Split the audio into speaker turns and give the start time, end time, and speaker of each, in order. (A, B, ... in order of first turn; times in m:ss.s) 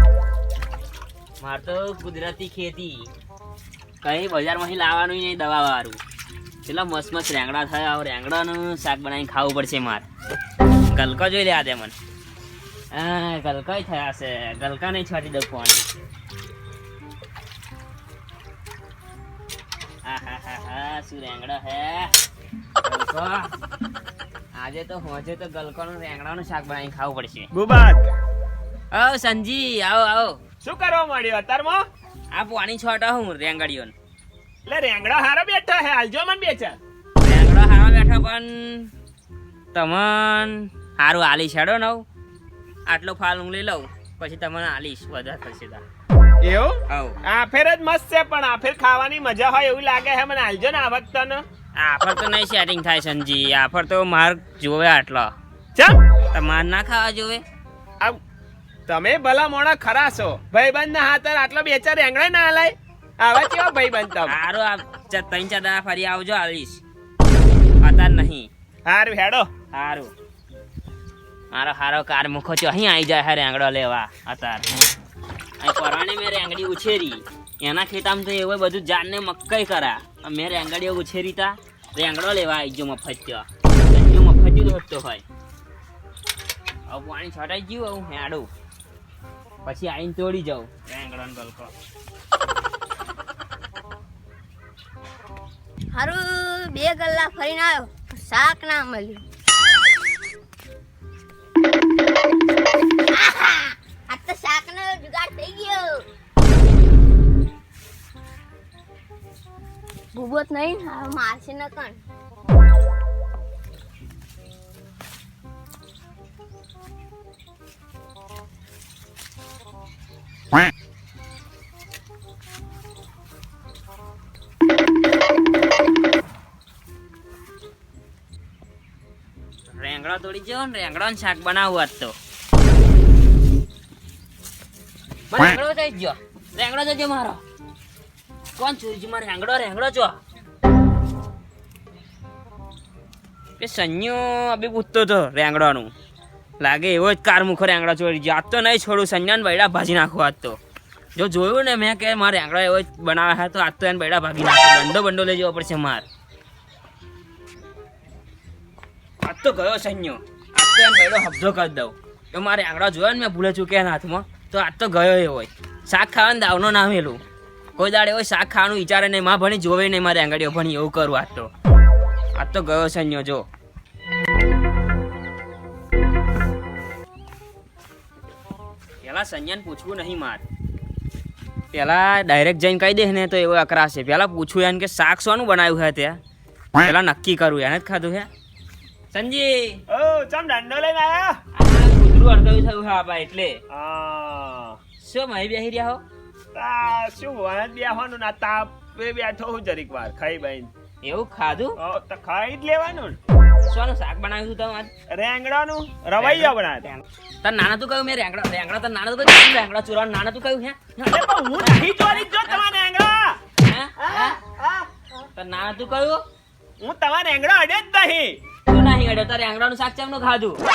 0:01.4-0:03.1 A
0:04.0-0:06.0 A
0:06.6-0:10.0 A
0:10.9-0:11.9 A
0:12.9-0:15.9 A
0:20.0-0:22.1 A
0:22.8-0:23.5 A
0:24.6-0:27.5 A
0:27.5-0:28.1 B
0:28.9-0:30.4 A
0:30.6-0:31.8 B
0:32.3-0:33.9 A
0:34.7-0:36.8 B
0:37.2-0:38.9 A
0:39.7-0:42.0 A
0:42.9-0:45.8 A
0:46.4-0:51.4 B
0:46.9-0:47.2 A
0:51.8-0:55.3 A
0:56.3-0:57.4 A
0:58.9-1:04.4 B
1:04.2-1:06.8 A
1:07.8-1:08.5 A
1:08.8-1:09.5 B
1:09.7-1:10.1 A
1:11.5-1:14.7 A
1:15.6-1:25.2 A
1:26.9-1:28.5 A
1:29.6-1:31.7 A
1:35.9-1:39.2 C
1:43.1-1:46.1 C
1:50.1-1:52.0 C
2:09.7-2:12.1 A
2:15.3-2:17.4 A
2:18.6-2:20.2 A
2:23.6-2:25.9 A
2:26.6-2:30.6 A
2:31.2-2:36.0 A
2:39.2-2:47.2 A
2:47.8-2:51.5 A
2:52.4-2:53.5 A
2:59.0-3:00.4 A
3:01.7-3:06.2 A
3:06.8-3:08.3 A
3:09.1-3:09.8 A
3:09.9-3:11.4 B
3:11.5-3:13.6 A
3:13.7-3:14.8 B
3:15.0-3:16.0 A
3:16.5-3:20.7 B
3:21.0-3:21.8 A
3:21.8-3:23.2 B
3:23.6-3:24.9 A
3:25.1-3:26.8 B
3:26.2-3:32.6 A
3:31.1-3:33.4 B
3:33.6-3:34.4 A
3:34.0-3:34.9 B
3:35.4-3:36.2 A
3:36.8-3:38.4 B
3:38.7-3:40.6 A